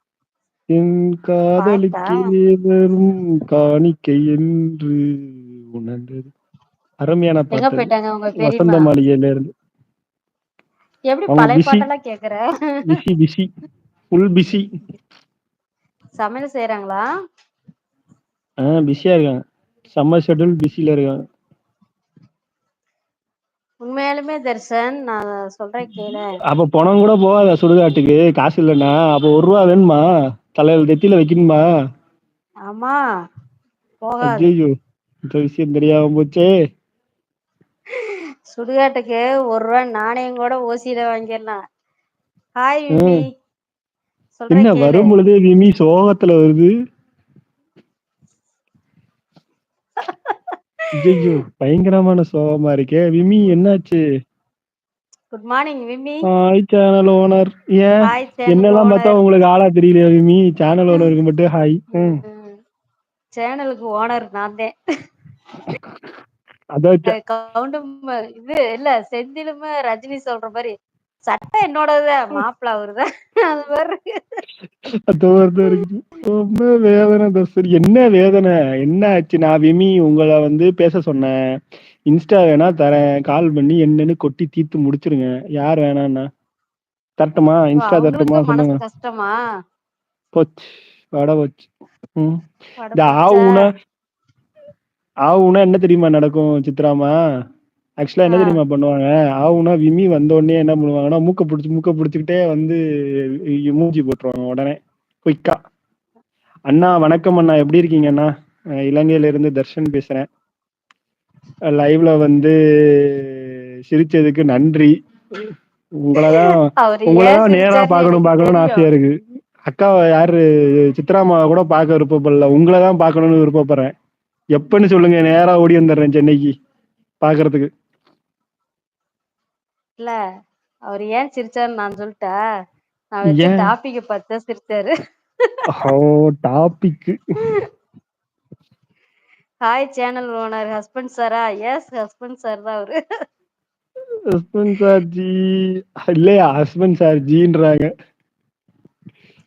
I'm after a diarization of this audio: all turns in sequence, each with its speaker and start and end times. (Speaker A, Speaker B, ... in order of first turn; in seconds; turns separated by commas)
Speaker A: 0.7-5.1, Speaker B: 1.6-2.3, Speaker A: 5.7-6.3, Speaker A: 7.0-9.5, Speaker B: 7.5-8.9, Speaker B: 11.1-12.8, Speaker A: 11.3-11.9, Speaker A: 12.9-13.5, Speaker A: 14.2-14.7, Speaker B: 16.2-17.0, Speaker A: 18.6-19.4, Speaker A: 19.9-21.2, Speaker B: 23.8-26.3, Speaker A: 25.9-30.0, Speaker A: 30.6-31.6, Speaker B: 32.7-33.0, Speaker B: 34.0-34.5, Speaker A: 34.2-34.7, Speaker A: 35.3-36.5, Speaker B: 37.9-41.6, Speaker B: 42.6-43.3, Speaker A: 42.9-43.2, Speaker B: 44.4-45.1, Speaker A: 44.5-46.7, Speaker B: 50.0-51.3, Speaker A: 51.0-54.0, Speaker B: 55.3-56.2, Speaker A: 56.3-62.2, Speaker B: 58.0-59.2, Speaker B: 62.0-62.6, Speaker B: 63.3-64.8, Speaker A: 66.8-67.2, Speaker B: 67.1-70.7, Speaker B: 71.3-74.4, Speaker A: 75.1-81.3, Speaker A: 82.1-86.3, Speaker A: 87.2-88.8, Speaker B: 87.8-89.4, Speaker A: 90.3-92.4, Speaker B: 92.8-93.7, Speaker A: 93.0-93.7, Speaker A: 95.3-97.2, Speaker A: 98.0-102.8, Speaker B: 98.3-98.6, Speaker A: 103.5-105.6, Speaker A: 106.7-108.3, Speaker A: 108.9-110.3, Speaker A: 111.7-114.9, Speaker A: 116.0-123.9, Speaker B: 116.2-118.9, Speaker A: 124.6-126.5, Speaker A: 127.2-127.7, Speaker B: 130.9-132.3, Speaker B: 133.1-134.9, Speaker A: 133.3-133.7, Speaker A: 135.7-137.2, Speaker B: 139.6-143.0, Speaker A: 144.4-145.4, Speaker A: 146.1-147.9